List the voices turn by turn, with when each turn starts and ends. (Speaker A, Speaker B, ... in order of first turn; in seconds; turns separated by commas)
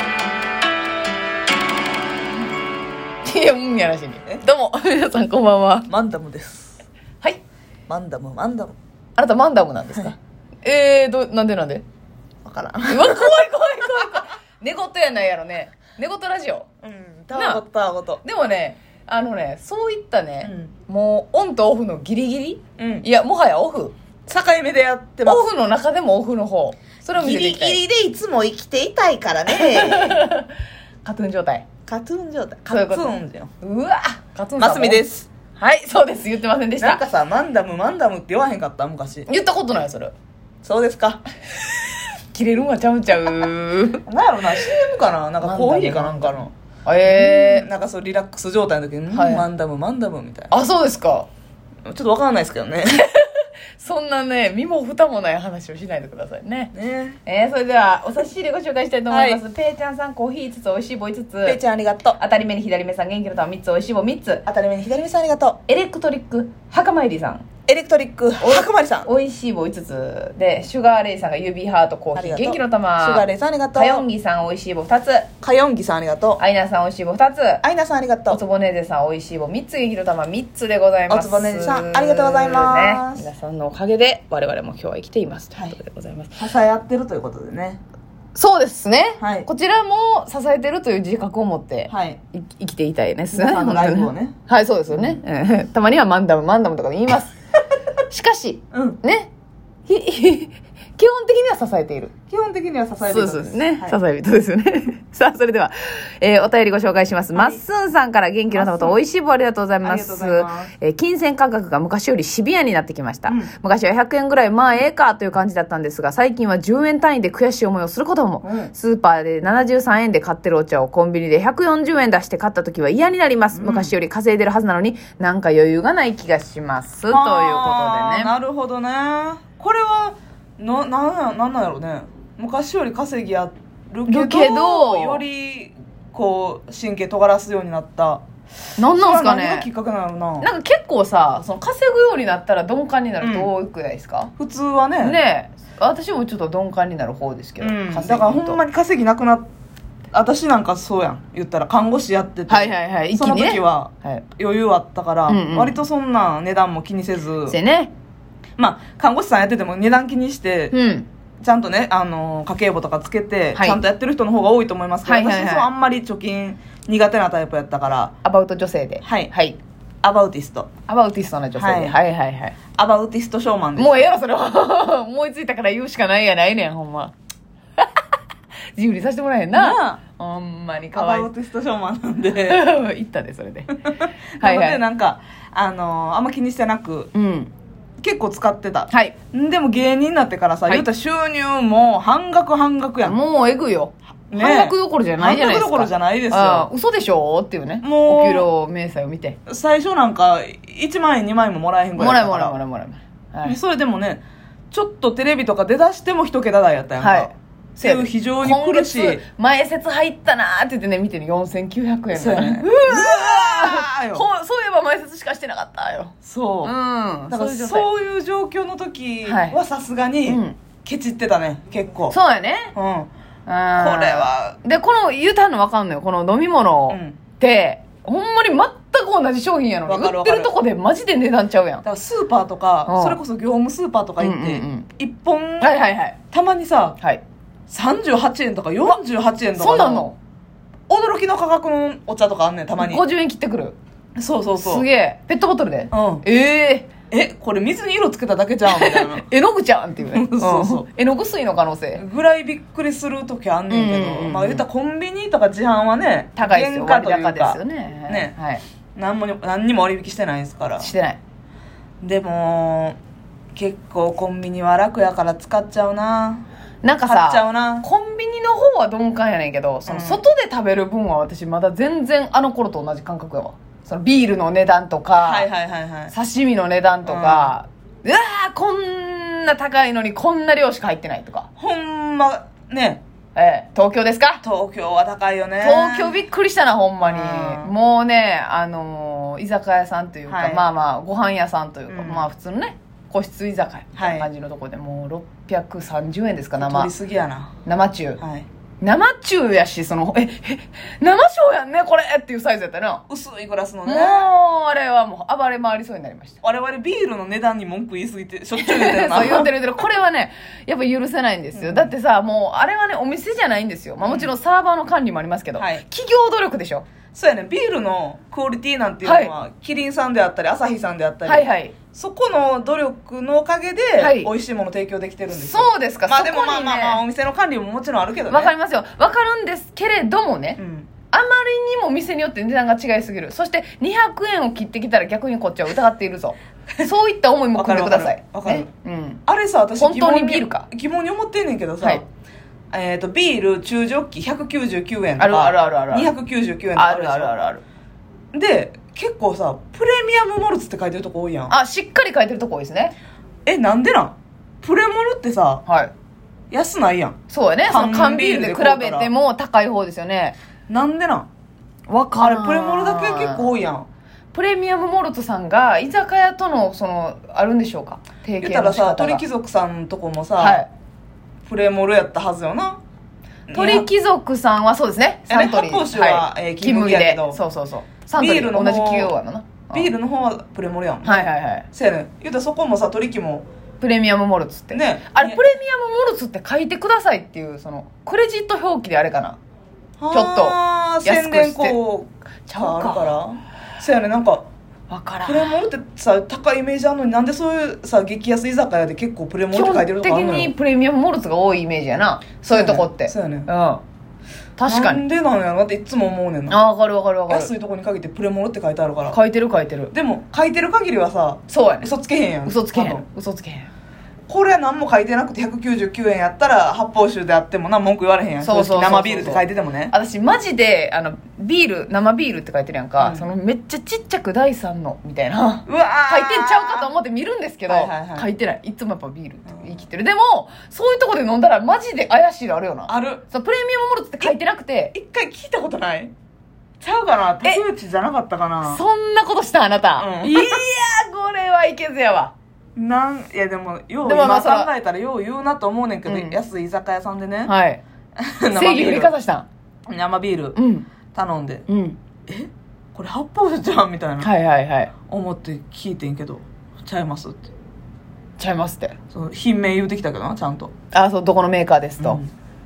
Speaker A: 3.2-5.9, Speaker B: 5.9-6.8, Speaker B: 7.9-8.8, Speaker A: 9.2-11.8, Speaker B: 12.4-13.3, Speaker A: 12.9-16.7, Speaker B: 16.8-18.2, Speaker A: 17.3-17.6, Speaker A: 18.2-23.9, Speaker B: 20.4-20.7, Speaker B: 22.8-23.1, Speaker B: 24.3-25.5, Speaker A: 25.2-27.8, Speaker B: 27.1-30.3, Speaker A: 29.5-30.5, Speaker A: 31.0-31.7, Speaker B: 31.9-33.5, Speaker A: 32.7-35.0, Speaker B: 34.6-35.3, Speaker A: 35.6-37.0, Speaker B: 36.8-39.3, Speaker A: 39.3-40.1, Speaker B: 40.6-41.2, Speaker A: 42.3-44.0, Speaker B: 44.1-46.5, Speaker A: 45.4-47.7, Speaker B: 47.0-50.5, Speaker A: 49.1-49.5, Speaker A: 50.5-51.3, Speaker B: 51.9-53.0, Speaker A: 52.9-56.7, Speaker B: 56.7-57.2, Speaker A: 57.2-61.6, Speaker B: 59.1-59.4, Speaker B: 61.4-62.2, Speaker A: 62.2-64.5, Speaker B: 64.5-65.6, Speaker A: 65.7-67.5, Speaker B: 67.7-69.1, Speaker A: 68.4-75.3, Speaker B: 72.2-74.1, Speaker B: 75.4-76.4, Speaker A: 76.4-77.6, Speaker B: 77.6-78.4, Speaker A: 78.3-86.3, Speaker B: 81.1-83.3, Speaker B: 86.4-87.8, Speaker A: 88.3-97.3, Speaker B: 89.2-89.5, Speaker B: 91.9-92.2, Speaker B: 93.3-94.3, Speaker B: 94.9-95.2, Speaker A: 98.1-99.3, Speaker B: 98.7-99.0, Speaker A: 99.9-102.1, Speaker B: 102.3-104.0, Speaker A: 103.1-128.3, Speaker B: 107.3-107.6, Speaker B: 108.5-109.0, Speaker B: 109.8-110.7, Speaker B: 113.3-113.5, Speaker B: 118.4-118.7, Speaker B: 123.5-123.9, Speaker B: 127.1-138.2, Speaker A: 134.1-135.2, Speaker A: 138.8-139.7, Speaker B: 138.9-140.5, Speaker A: 140.4-144.3, Speaker B: 143.2-143.5, Speaker B: 144.4-145.2, Speaker A: 145.0-148.6, Speaker B: 147.6-149.5, Speaker B: 150.1-157.6, Speaker A: 152.5-154.2, Speaker A: 155.3-155.8, Speaker A: 157.5-157.9, Speaker B: 158.6-160.8, Speaker A: 160.7-161.1, Speaker B: 161.4-168.1, Speaker A: 163.6-163.8, Speaker A: 165.1-165.7, Speaker A: 168.2-169.6, Speaker B: 169.0-169.3, Speaker B: 170.0-170.7, Speaker A: 170.9-172.6, Speaker B: 171.6-172.0, Speaker B: 172.8-174.1, Speaker A: 173.8-177.1, Speaker A: 177.8-178.0, Speaker A: 178.8-181.3, Speaker B: 179.5-180.0, Speaker B: 180.9-182.6, Speaker A: 182.4-183.8, Speaker B: 183.8-187.1, Speaker A: 184.4-184.8, Speaker A: 187.1-187.5, Speaker B: 188.0-193.2, Speaker A: 188.9-189.2, Speaker A: 193.0-199.4, Speaker B: 194.3-196.7, Speaker B: 197.8-198.5, Speaker B: 199.5-202.6, Speaker A: 202.0-203.6, Speaker B: 203.4-209.2, Speaker A: 207.0-217.9, Speaker B: 212.1-214.3, Speaker B: 216.2-216.8, Speaker B: 217.3-222.2, Speaker A: 219.3-219.6, Speaker A: 220.3-220.6, Speaker A: 222.1-222.7, Speaker B: 222.8-223.1, Speaker A: 223.5-231.8, Speaker B: 223.8-224.6, Speaker B: 226.9-227.2, Speaker B: 229.9-230.5, Speaker B: 231.8-235.8, Speaker A: 232.9-233.2, Speaker A: 234.2-234.9, Speaker A: 235.6-236.2, Speaker B: 236.3-237.0, Speaker B: 237.7-240.1, Speaker A: 239.6-240.2, Speaker B: 240.9-243.0, Speaker A: 242.8-243.8, Speaker B: 244.2-244.9, Speaker A: 244.6-246.9, Speaker B: 245.9-246.2, Speaker B: 247.1-249.3, Speaker A: 248.7-252.0, Speaker B: 250.0-250.9, Speaker B: 251.9-258.4, Speaker A: 253.7-254.6, Speaker A: 256.4-258.6, Speaker B: 258.9-260.9, Speaker A: 260.8-261.2, Speaker B: 262.0-263.0, Speaker B: 263.6-266.4, Speaker A: 266.8-275.5, Speaker B: 267.1-267.9, Speaker B: 269.9-270.2, Speaker B: 275.2-276.1, Speaker A: 276.1-281.5, Speaker B: 277.1-277.5, Speaker B: 281.6-283.0, Speaker A: 283.4-284.4, Speaker B: 284.4-286.2, Speaker A: 285.6-296.9, Speaker B: 287.0-287.7, Speaker B: 290.3-290.6, Speaker B: 291.9-292.3, Speaker B: 294.0-294.3, Speaker B: 296.6-297.5, Speaker A: 297.6-298.2, Speaker B: 298.2-298.5, Speaker A: 298.8-303.0, Speaker B: 303.1-304.3, Speaker A: 303.9-306.4, Speaker B: 306.4-309.5, Speaker A: 308.6-316.9, Speaker B: 311.5-311.9, Speaker B: 314.0-314.3, Speaker B: 315.6-315.8, Speaker B: 317.1-328.5, Speaker A: 319.0-319.3, Speaker A: 321.2-321.8, Speaker A: 324.0-324.3, Speaker A: 325.3-327.0, Speaker A: 328.3-339.2, Speaker B: 330.6-330.9, Speaker B: 337.6-338.7, Speaker B: 339.3-342.0, Speaker A: 339.8-340.7, Speaker B: 342.7-347.3, Speaker A: 345.2-346.1, Speaker A: 346.8-347.6, Speaker B: 348.3-351.5, Speaker A: 351.5-352.9, Speaker B: 353.4-355.6, Speaker A: 355.7-355.9, Speaker B: 356.5-357.2, Speaker A: 357.3-360.4, Speaker B: 357.7-359.1, Speaker B: 360.7-361.3, Speaker A: 361.9-363.5, Speaker B: 362.2-363.9, Speaker A: 364.3-369.2, Speaker B: 368.4-370.6, Speaker A: 370.4-370.7, Speaker B: 371.4-372.8, Speaker B: 373.5-373.9, Speaker A: 373.5-379.9, Speaker B: 375.3-377.4, Speaker B: 378.2-379.1, Speaker B: 379.7-383.5, Speaker A: 381.1-381.7, Speaker A: 383.8-389.4, Speaker B: 384.7-385.4, Speaker B: 390.0-394.5, Speaker A: 390.1-391.8, Speaker A: 392.5-393.1, Speaker A: 394.9-395.5, Speaker B: 395.2-400.5, Speaker A: 399.5-403.8, Speaker B: 402.5-403.5, Speaker A: 404.6-405.0, Speaker B: 404.7-406.6, Speaker A: 406.5-407.5, Speaker B: 407.3-409.2, Speaker A: 409.1-409.9, Speaker B: 409.9-413.0, Speaker A: 411.5-411.9, Speaker A: 412.4-413.7, Speaker B: 414.3-419.9, Speaker A: 418.4-434.9, Speaker B: 423.0-423.3, Speaker B: 425.7-426.9, Speaker B: 427.7-428.3, Speaker B: 432.9-433.2, Speaker B: 434.9-436.1, Speaker B: 436.8-438.8, Speaker A: 438.6-442.3, Speaker B: 440.0-440.6, Speaker B: 442.8-447.5, Speaker A: 444.0-444.7, Speaker A: 446.1-446.4, Speaker A: 447.5-447.8, Speaker B: 448.2-449.1, Speaker A: 448.5-449.5, Speaker B: 449.9-450.6, Speaker A: 450.6-450.9, Speaker B: 451.1-451.6, Speaker A: 451.7-452.0, Speaker B: 452.3-454.3, Speaker A: 454.2-454.9, Speaker B: 455.1-457.5, Speaker A: 458.4-458.9, Speaker B: 459.1-460.7, Speaker A: 460.9-462.2, Speaker B: 462.0-462.3